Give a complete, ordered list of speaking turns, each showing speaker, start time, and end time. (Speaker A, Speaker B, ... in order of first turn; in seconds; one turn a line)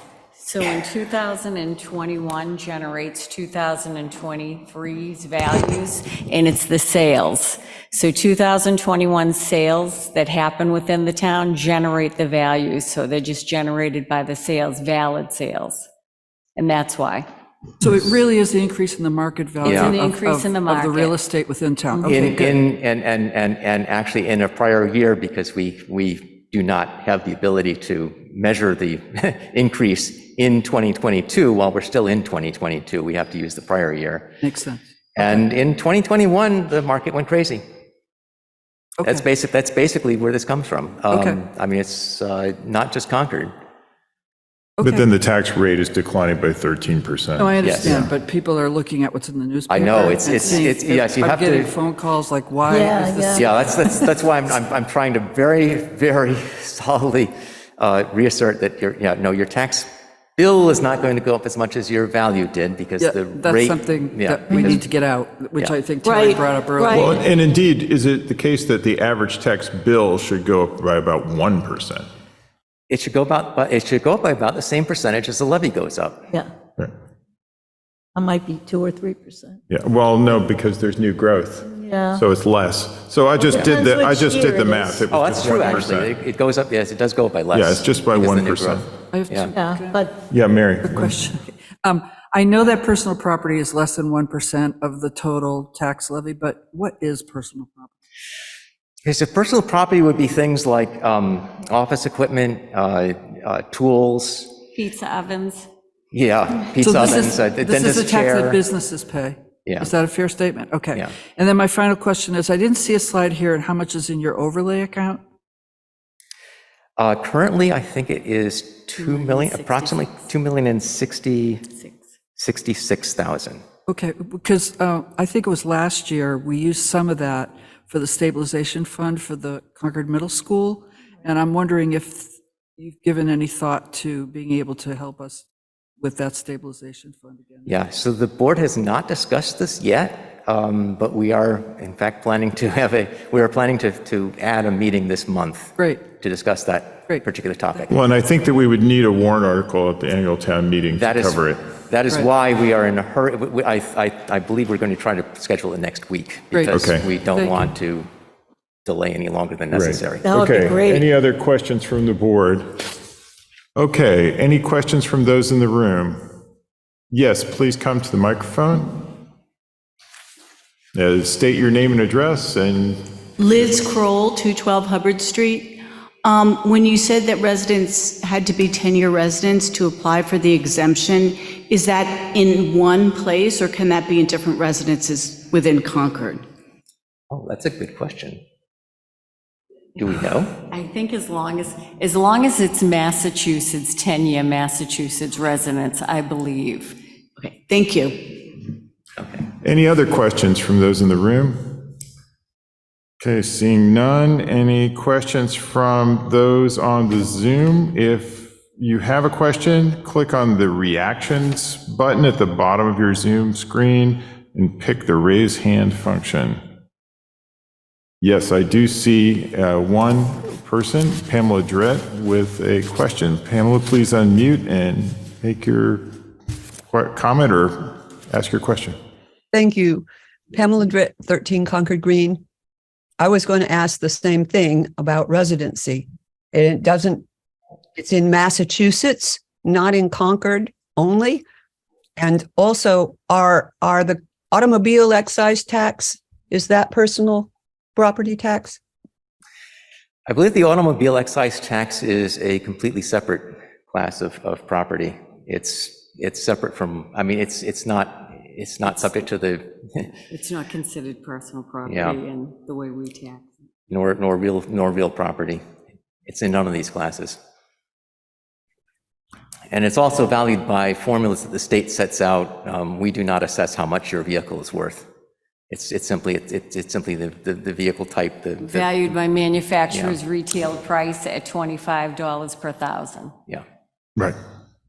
Speaker A: 0.4-15.9
Speaker A: 16.6-17.3
Speaker B: 17.8-22.6
Speaker C: 19.6-20.0
Speaker A: 19.6-21.2
Speaker A: 21.9-22.2
Speaker C: 22.1-34.4
Speaker B: 34.4-35.4
Speaker C: 35.2-37.6
Speaker C: 39.0-43.5
Speaker B: 41.1-41.4
Speaker B: 44.8-45.1
Speaker D: 44.8-48.1
Speaker B: 47.4-53.6
Speaker C: 47.6-48.0
Speaker C: 49.7-51.8
Speaker E: 52.7-54.1
Speaker C: 53.3-64.9
Speaker B: 63.0-67.1
Speaker E: 66.0-67.2
Speaker D: 66.9-72.1
Speaker C: 72.9-76.3
Speaker E: 78.2-79.6
Speaker D: 79.7-86.2
Speaker E: 81.7-82.2
Speaker E: 83.3-85.0
Speaker C: 85.1-89.5
Speaker D: 87.5-88.9
Speaker B: 89.1-90.1
Speaker E: 89.5-90.3
Speaker D: 90.3-91.2
Speaker B: 90.8-97.9
Speaker C: 99.0-104.6
Speaker A: 104.7-105.7
Speaker C: 106.1-108.6
Speaker B: 106.8-115.2
Speaker C: 117.0-121.7
Speaker A: 118.9-120.3
Speaker A: 121.8-122.0
Speaker C: 122.4-123.6
Speaker B: 123.9-135.5
Speaker B: 136.0-137.8
Speaker C: 137.7-148.0
Speaker B: 145.8-146.0
Speaker D: 147.9-151.7
Speaker C: 150.9-158.1
Speaker B: 156.5-156.8
Speaker D: 156.7-157.1
Speaker C: 158.8-160.6
Speaker D: 159.7-162.7
Speaker E: 160.2-161.1
Speaker D: 163.8-166.2
Speaker D: 167.1-169.1
Speaker D: 170.9-173.0
Speaker F: 173.4-186.4
Speaker C: 187.3-188.4
Speaker C: 190.0-190.6
Speaker A: 190.7-197.0
Speaker F: 197.7-198.5
Speaker C: 199.2-199.4
Speaker D: 199.6-201.9
Speaker D: 203.2-216.6
Speaker D: 218.2-226.1
Speaker D: 226.9-229.0
Speaker G: 229.5-232.4
Speaker G: 233.2-237.2
Speaker G: 237.9-241.4
Speaker G: 242.2-248.8
Speaker C: 250.3-260.2
Speaker A: 260.3-263.7
Speaker C: 261.9-262.2
Speaker C: 263.9-265.6
Speaker C: 266.3-267.4
Speaker C: 269.7-275.1
Speaker C: 275.7-279.1
Speaker A: 278.6-283.4
Speaker C: 279.9-280.2